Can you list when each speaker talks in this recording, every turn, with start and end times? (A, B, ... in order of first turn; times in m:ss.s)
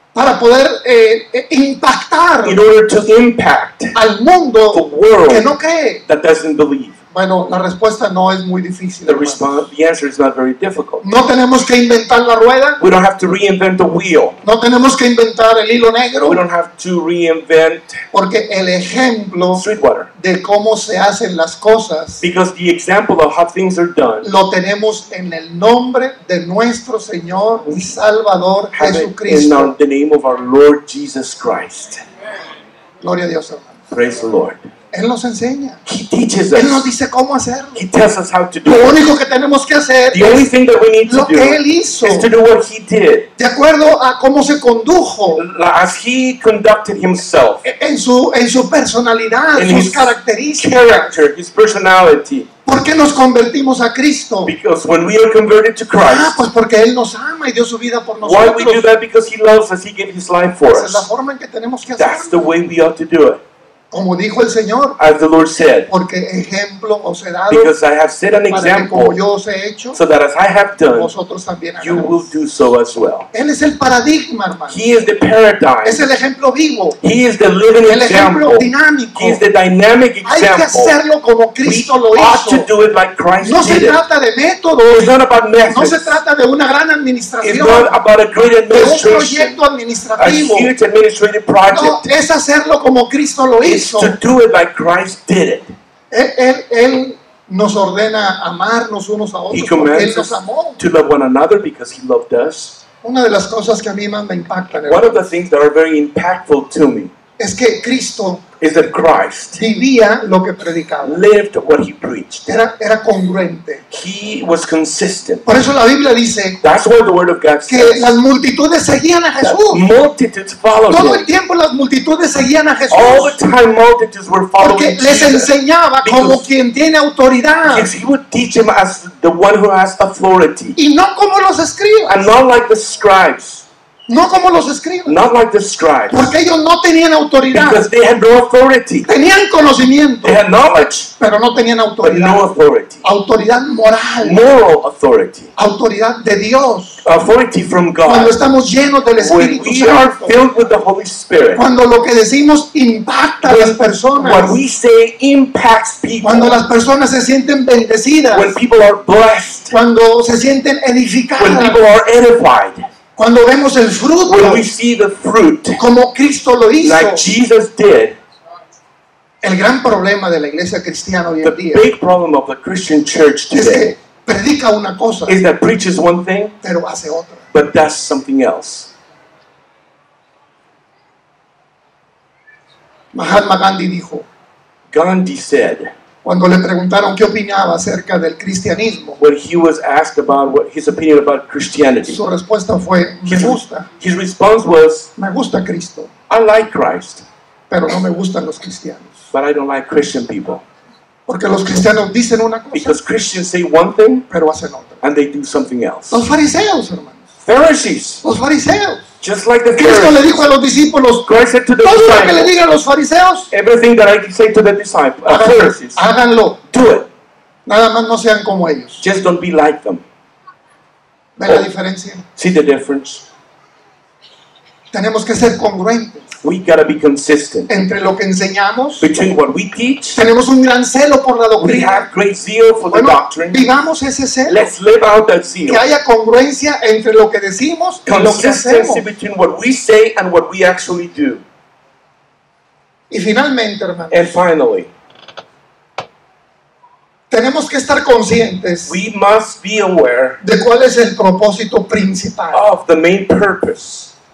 0:00.1-0:02.6 A
0:02.4-0:04.0 B
0:03.9-0:06.0 A
0:04.7-0:05.5 B
0:06.1-0:07.0 B
0:07.1-0:09.6 A
0:09.0-0:11.0 B
0:11.0-0:12.8 A
0:12.8-0:14.4 B
0:14.4-0:16.4 A
0:16.2-0:18.0 B
0:18.1-0:19.6 A
0:19.5-0:20.1 B
0:20.2-0:22.2 A
0:22.2-0:24.3 B
0:24.2-0:29.7 A
0:28.7-0:32.0 B
0:33.0-0:33.8 A
0:33.9-0:34.7 B
0:34.9-0:35.8 A
0:35.8-0:36.9 B
0:36.5-0:37.8 A
0:37.7-0:39.0 B
0:38.6-0:40.5 A
0:40.1-0:43.3 B
0:41.1-0:42.3 A
0:43.4-0:45.4 A
0:45.3-0:47.6 B
0:47.6-0:51.1 A
0:49.5-0:52.5 B
0:52.6-0:54.5 A
0:54.4-0:56.4 B
0:56.0-0:58.9 A
0:58.2-1:01.1 B
1:00.7-1:02.4 A
1:02.0-1:03.4 B
1:03.9-1:05.0 A
1:05.0-1:05.9 B
1:05.9-1:07.7 A
1:07.5-1:09.2 B
1:08.5-1:10.0 A
1:09.9-1:11.1 B
1:10.9-1:12.3 A
1:11.8-1:13.3 B
1:13.3-1:14.8 A
1:14.7-1:16.1 B
1:15.8-1:17.0 A
1:17.0-1:21.0 B
1:17.8-1:19.4 A
1:20.2-1:22.7 A
1:21.6-1:24.0 B
1:23.4-1:25.1 A
1:24.9-1:26.2 B
1:25.7-1:28.0 A
1:27.4-1:29.6 B
1:28.7-1:30.7 A
1:30.2-1:32.0 B
1:31.7-1:34.2 A
1:33.6-1:35.7 B
1:36.1-1:40.8 A
1:39.5-1:42.8 B
1:43.0-1:45.2 A
1:44.8-1:47.1 B
1:47.4-1:48.4 A
1:48.6-1:49.6 B
1:49.6-1:51.2 A
1:51.0-1:52.5 B
1:52.4-1:53.8 A
1:53.9-1:55.4 B
1:55.4-1:56.6 A
1:56.6-1:58.2 B
1:57.7-1:59.8 A
1:59.4-2:01.3 B
2:00.9-2:03.4 A
2:02.9-2:05.5 B
2:04.6-2:07.9 A
2:06.0-2:06.4 B
2:07.6-2:10.8 B
2:10.8-2:12.3 A
2:12.1-2:13.6 B
2:14.1-2:15.2 A
2:15.0-2:16.3 B
2:16.1-2:17.8 A
2:17.5-2:19.1 B
2:19.1-2:20.4 A
2:20.2-2:21.1 B
2:21.2-2:22.4 A
2:22.0-2:23.0 B
2:23.0-2:24.5 A
2:24.2-2:25.5 B
2:25.6-2:27.0 A
2:27.0-2:28.4 B
2:28.0-2:30.4 A
2:29.2-2:31.6 B
2:31.6-2:34.6 A
2:33.4-2:36.6 B
2:36.2-2:38.6 A
2:38.3-2:39.7 B
2:39.7-2:41.8 A
2:41.4-2:42.8 B
2:43.2-2:44.6 A
2:44.2-2:45.8 B
2:45.8-2:47.2 A
2:46.8-2:48.2 B
2:49.4-2:51.8 A
2:51.4-2:53.9 B
2:53.5-2:55.4 A
2:55.3-2:56.5 B
2:56.6-2:57.4 A
2:57.5-2:58.9 B
3:03.1-3:04.2 A
3:04.9-3:05.9 B
3:06.2-3:09.2 A
3:09.2-3:12.2 B
3:12.1-3:13.9 A
3:13.2-3:15.1 B
3:15.2-3:16.1 A
3:16.3-3:17.2 B
3:17.7-3:19.2 A
3:19.3-3:20.6 B
3:21.3-3:23.0 A
3:22.7-3:24.2 B
3:24.3-3:25.0 A
3:25.0-3:26.2 B
3:26.1-3:27.2 A
3:27.4-3:28.2 B
3:28.2-3:29.1 A
3:29.2-3:30.4 B
3:29.7-3:31.3 A
3:31.2-3:32.5 B
3:31.8-3:33.5 A
3:33.5-3:36.0 B
3:35.3-3:36.6 A
3:36.7-3:37.1 B
3:37.6-3:39.0 A
3:39.0-3:40.0 B
3:41.4-3:42.2 A
3:42.4-3:43.2 B
3:44.9-3:46.3 A
3:46.4-3:47.7 B
3:47.7-3:49.1 A
3:49.0-3:50.2 B
3:50.2-3:52.1 A
3:51.6-3:53.7 B
3:52.9-3:54.7 A
3:54.5-3:55.8 B
3:55.6-3:59.0 A
3:58.0-4:01.4 B
4:03.1-4:04.4 A
4:04.1-4:04.9 B
4:07.3-4:09.0 A
4:08.9-4:10.4 B
4:10.4-4:12.6 A
4:12.5-4:14.1 B